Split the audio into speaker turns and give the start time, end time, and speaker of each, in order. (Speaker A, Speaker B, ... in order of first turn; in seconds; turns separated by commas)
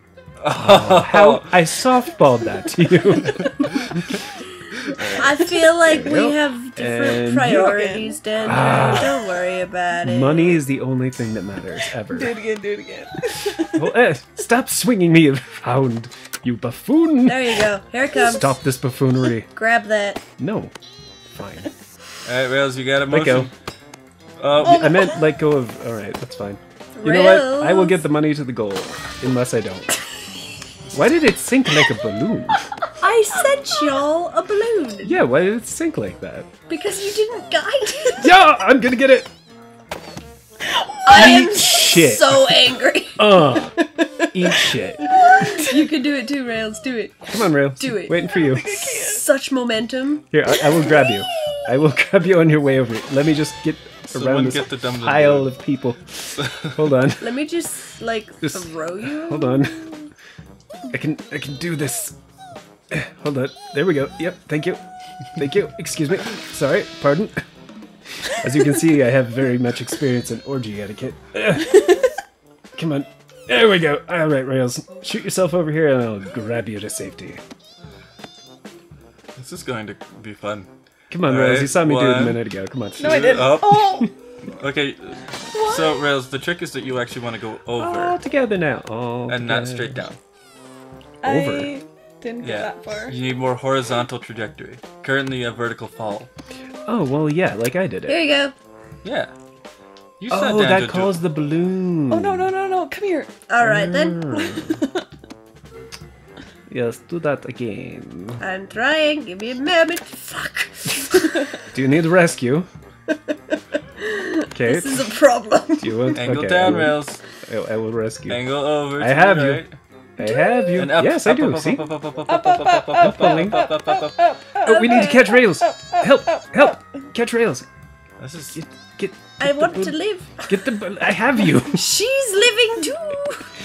Speaker A: 0.4-1.6, Speaker B: 0.5-4.2, Speaker B: 4.9-7.7, Speaker C: 5.0-10.6, Speaker D: 7.4-9.1, Speaker B: 8.4-9.2, Speaker B: 10.0-12.4, Speaker D: 12.1-13.8, Speaker B: 13.7-19.5, Speaker C: 17.3-18.5, Speaker C: 19.5-20.2, Speaker B: 20.4-20.7, Speaker B: 21.2-21.7, Speaker A: 22.2-23.5, Speaker B: 23.1-23.5, Speaker A: 24.4-24.9, Speaker B: 24.6-29.9, Speaker C: 26.9-28.0, Speaker B: 30.9-32.7, Speaker C: 33.0-35.2, Speaker B: 35.0-36.5, Speaker C: 36.7-38.4, Speaker B: 38.2-39.3, Speaker C: 41.0-48.2, Speaker B: 41.1-45.6, Speaker B: 47.3-49.0, Speaker D: 48.2-49.2, Speaker C: 48.9-51.6, Speaker B: 50.3-57.4, Speaker A: 54.1-55.5, Speaker A: 56.4-56.7, Speaker C: 57.2-59.7, Speaker B: 58.4-59.9, Speaker B: 60.9-62.2, Speaker B: 62.9-64.8, Speaker B: 65.4-67.4, Speaker B: 68.3-72.0, Speaker B: 72.7-77.4, Speaker A: 79.4-80.7, Speaker B: 81.1-83.6, Speaker A: 81.2-82.4, Speaker D: 83.0-84.1, Speaker A: 83.0-88.2, Speaker D: 85.5-86.0, Speaker B: 87.8-90.0, Speaker A: 89.3-90.2, Speaker D: 91.2-93.2, Speaker B: 91.2-91.7, Speaker A: 92.4-96.3, Speaker B: 96.9-98.2, Speaker C: 98.1-98.5, Speaker A: 99.0-99.3, Speaker A: 100.2-101.1, Speaker B: 100.3-102.5, Speaker D: 102.1-103.3, Speaker C: 103.5-104.6, Speaker B: 103.6-104.8, Speaker D: 104.7-105.0, Speaker B: 106.7-108.4, Speaker C: 108.4-111.5, Speaker B: 111.7-112.7, Speaker C: 114.0-116.2, Speaker B: 114.5-115.1, Speaker B: 115.8-118.4, Speaker A: 116.2-117.2, Speaker A: 118.3-119.8, Speaker B: 119.0-119.7, Speaker B: 120.2-121.9, Speaker D: 120.2-120.8, Speaker A: 120.7-124.2, Speaker D: 122.3-126.8, Speaker B: 123.0-123.6, Speaker B: 124.6-127.7, Speaker C: 124.7-125.4, Speaker A: 128.2-128.6, Speaker B: 128.6-131.9, Speaker C: 129.4-130.7, Speaker C: 131.6-133.5